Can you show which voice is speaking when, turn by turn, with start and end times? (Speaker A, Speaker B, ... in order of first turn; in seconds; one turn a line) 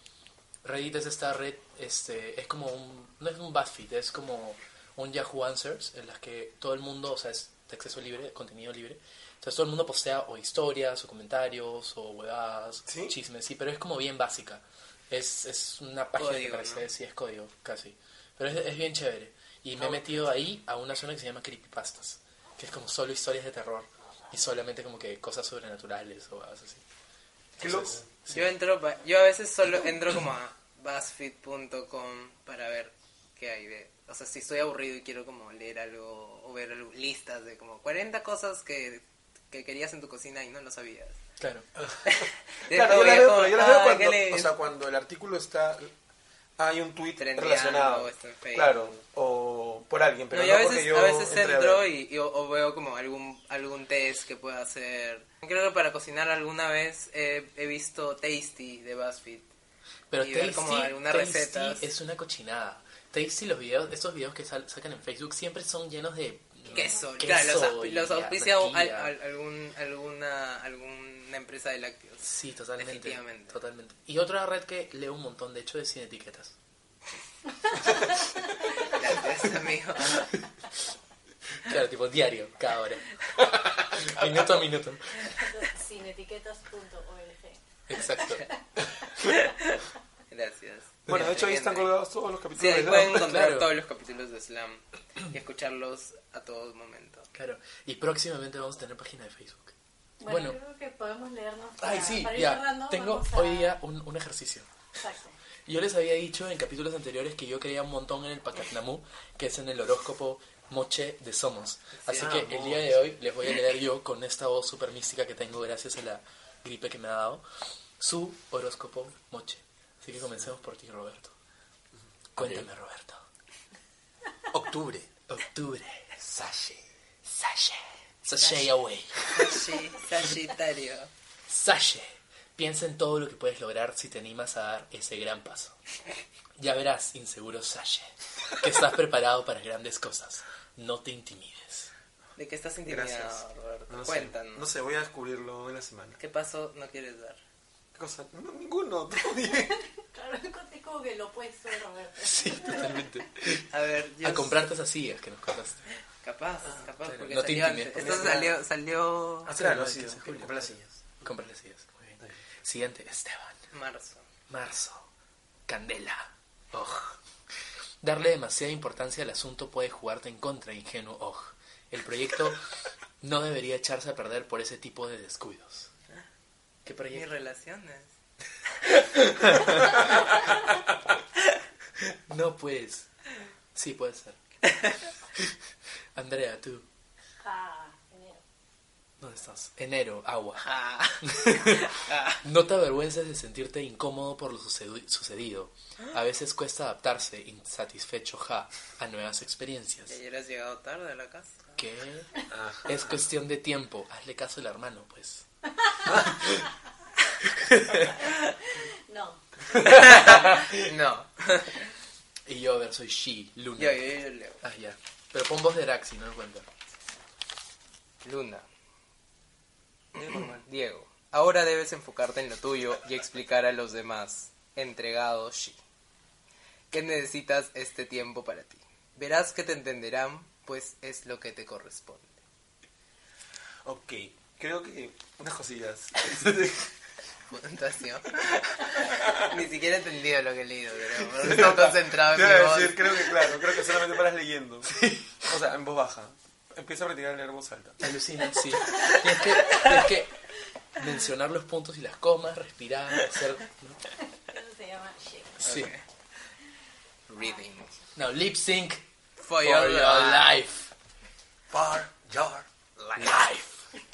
Speaker A: 0.6-26.8
Speaker B: 12.9-13.1
Speaker C: 16.2-16.8
Speaker B: 19.8-20.2
Speaker A: 27.6-28.0
Speaker B: 27.6-28.4
Speaker C: 28.3-41.2
Speaker A: 41.4-41.6
Speaker B: 41.8-45.9
Speaker C: 42.0-44.5
Speaker B: 46.6-51.9
Speaker C: 47.2-48.9
Speaker C: 50.3-59.5
Speaker A: 60.1-69.1
Speaker C: 60.2-61.9
Speaker C: 66.7-72.2
Speaker A: 72.2-76.5
Speaker C: 72.8-73.5
Speaker C: 78.7-80.4
Speaker A: 81.5-85.3
Speaker B: 84.0-84.5
Speaker D: 85.3-88.4
Speaker A: 87.9-88.4
Speaker C: 89.2-91.9
Speaker B: 91.1-93.4
Speaker C: 92.6-97.3
Speaker A: 93.1-93.7
Speaker A: 97.3-100.6
Speaker D: 100.2-103.8
Speaker A: 101.8-104.7
Speaker D: 105.0-105.4
Speaker A: 105.7-117.4
Speaker C: 112.0-112.3
Speaker B: 112.1-113.0
Speaker A: 118.0-121.3
Speaker A: 122.3-123.2
Speaker B: 122.3-122.7
Speaker B: 124.5-125.1
Speaker A: 125.3-126.1
Speaker B: 126.2-126.8
Speaker A: 127.2-129.6
Speaker C: 129.3-131.1
Speaker A: 131.5-135.7
Speaker A: 136.6-141.9
Speaker C: 142.4-144.6
Speaker B: 142.8-146.2
Speaker C: 146.2-147.4
Speaker B: 147.9-149.8
Speaker D: 149.7-153.0
Speaker A: 152.2-153.7
Speaker C: 153.5-154.6
Speaker A: 154.2-155.8
Speaker C: 156.2-159.5
Speaker A: 157.0-158.4
Speaker B: 158.0-158.6
Speaker B: 159.4-161.1
Speaker A: 159.5-160.7
Speaker A: 161.2-163.6
Speaker C: 163.7-164.2
Speaker A: 164.5-165.1
Speaker A: 165.7-167.2
Speaker A: 168.0-172.6
Speaker A: 173.2-175.9
Speaker A: 176.8-177.3
Speaker C: 177.1-178.1
Speaker A: 179.4-179.8
Speaker A: 182.0-183.1
Speaker A: 183.7-184.4
Speaker A: 186.2-186.9
Speaker D: 187.4-188.4
Speaker A: 189.2-190.7
Speaker C: 190.6-192.4
Speaker A: 191.2-200.2
Speaker C: 200.1-201.8
Speaker A: 201.8-202.3
Speaker B: 202.5-203.1
Speaker A: 202.8-205.4
Speaker B: 206.1-206.3
Speaker A: 206.1-206.7
Speaker A: 207.4-208.2
Speaker D: 208.2-209.4
Speaker A: 209.8-210.8
Speaker C: 209.8-211.9
Speaker A: 212.4-214.1
Speaker C: 213.8-214.6
Speaker A: 214.6-216.7
Speaker C: 218.2-218.6
Speaker B: 220.1-220.6
Speaker C: 220.2-225.8
Speaker C: 226.9-232.4
Speaker B: 233.8-236.9
Speaker C: 237.5-243.6
Speaker B: 239.1-239.4
Speaker B: 241.3-248.0
Speaker A: 244.9-245.3
Speaker A: 248.0-250.3
Speaker A: 250.9-254.0
Speaker D: 254.3-255.6
Speaker A: 255.6-255.9
Speaker C: 255.6-256.0
Speaker C: 257.3-258.0
Speaker A: 258.1-259.0
Speaker C: 259.4-260.6
Speaker A: 259.6-260.9
Speaker B: 261.7-262.7
Speaker C: 263.0-263.4
Speaker A: 263.1-263.8